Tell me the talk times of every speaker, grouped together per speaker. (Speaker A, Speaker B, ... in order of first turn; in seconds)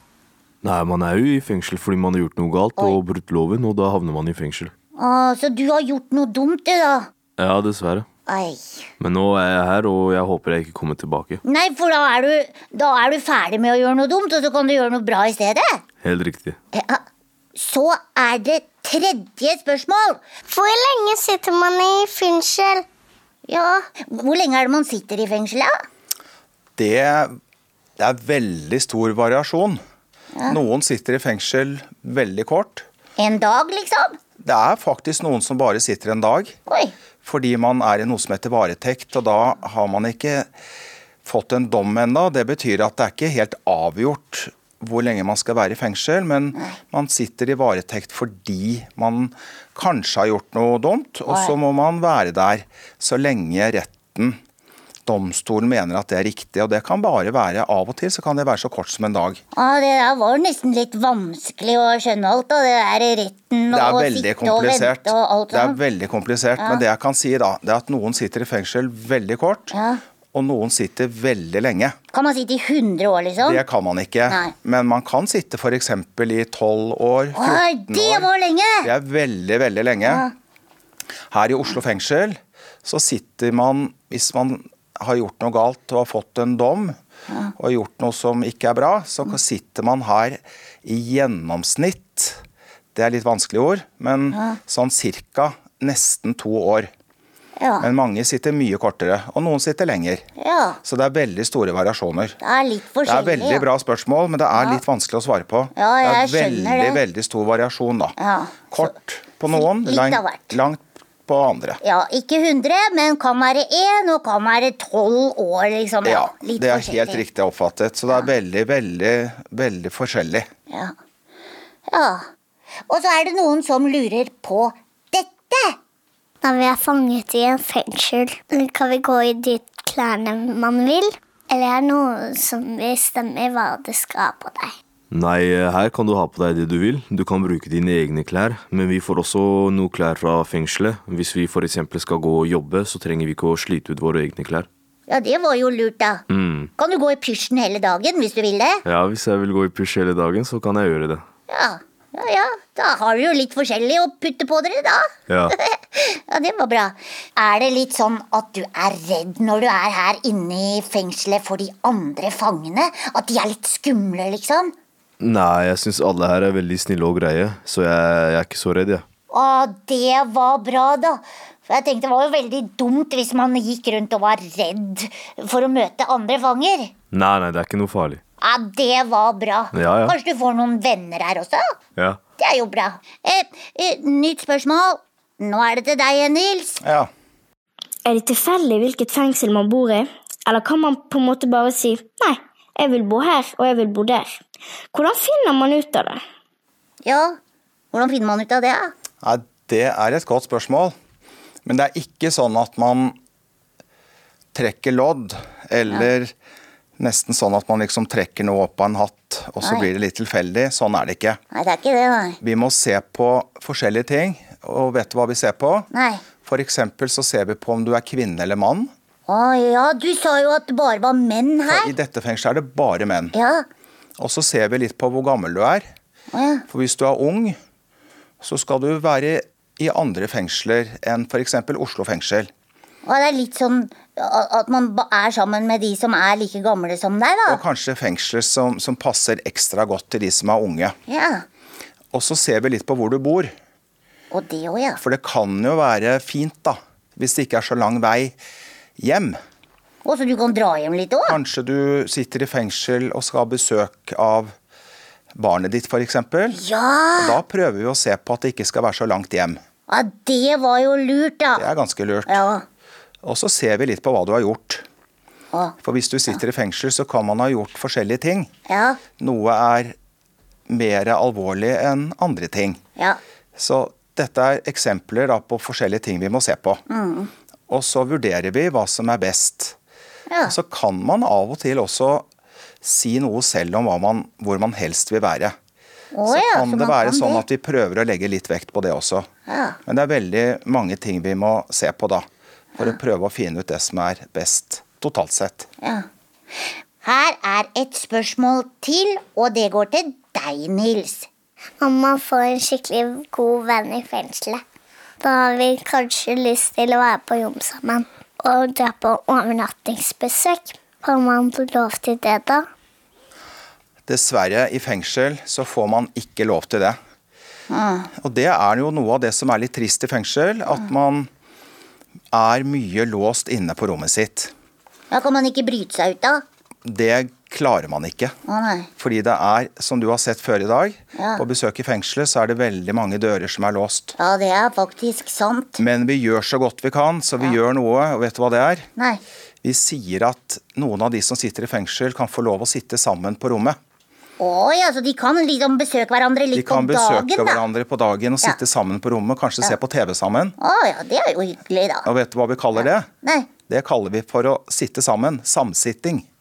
Speaker A: 0.6-4.7, 7.4-8.1, 9.0-11.4, 16.0-16.6, 135.1-144.7, 146.3-146.7, 148.8-151.2, 155.3-155.5, 165.2-169.0, 177.1-178.2, 179.7-180.2
Speaker B: 5.0-7.1, 8.3-8.8, 11.4-15.8, 16.7-17.0, 17.6-20.2, 23.5-25.7, 33.2-34.2, 36.7-36.9, 51.3-51.5, 59.5-65.8, 69.7-70.0, 72.1-73.6, 77.3-78.9, 80.0-80.3, 94.3-94.6, 97.6-97.9, 100.4-100.8, 102.4-103.6, 105.8-107.0, 108.2-108.9, 109.5-110.5, 111.8-117.2, 121.9-122.2, 122.9-125.8, 145.1-146.2, 146.8-148.8, 151.5-155.1, 155.6-164.7, 169.3-176.9, 178.4-181.6, 182.4-186.8, 197.0-197.4, 197.9-198.9, 211.5-212.4, 215.9-216.2, 219.3-221.9, 223.3-223.7, 226.3-226.6, 233.0-237.6, 241.1-241.4, 244.3-245.0, 250.0-251.3, 256.5-257.4, 259.9-261.6, 262.3-262.6, 268.7-269.0, 276.9-277.3, 286.1-287.4, 289.5-289.8, 295.8-296.1, 297.0-301.3, 317.7-318.1, 325.1-326.4, 328.5-328.9, 331.2-331.4, 334.2-335.8, 344.4-347.6, 350.6-352.1, 352.8-353.5
Speaker C: 20.5-22.8, 126.4-134.7, 301.8-304.6, 305.2-312.6
Speaker D: 26.8-27.4, 28.0-29.8, 30.5-32.9, 34.4-36.5, 37.2-40.5, 41.2-54.4, 55.0-59.4, 63.7-69.7, 70.3-72.0, 73.4-78.3, 78.8-80.2, 81.3-87.0, 87.5-92.4, 92.9-96.9, 97.8-100.2, 100.8-102.4, 103.0-108.2, 108.7-111.8, 116.0-120.5, 186.8-187.1, 199.2-200.9, 201.6-203.2, 204.5-206.3, 207.0-211.4, 212.4-215.9, 216.4-218.9, 221.7-223.3, 224.2-225.9, 226.7-227.6, 228.4-232.5, 237.5-240.9, 242.1-243.5, 245.0-248.4, 249.0-249.4, 251.2-254.5, 255.3-256.6, 257.1-259.6, 261.6-262.4, 263.2-264.8, 265.8-268.5, 269.2-269.9, 270.7-272.8, 273.6-276.8, 277.7-279.8, 280.4-282.2, 282.8-285.5, 286.3-289.3, 289.9-292.2, 292.8-295.7, 314.1-317.0, 318.1-321.3, 322.3-324.5, 326.8-328.4, 329.0-334.1, 335.8-338.9, 339.6-343.8, 346.5-350.6, 352.0-353.1, 353.7-356.2
Speaker E: 188.0-194.4, 194.9-196.2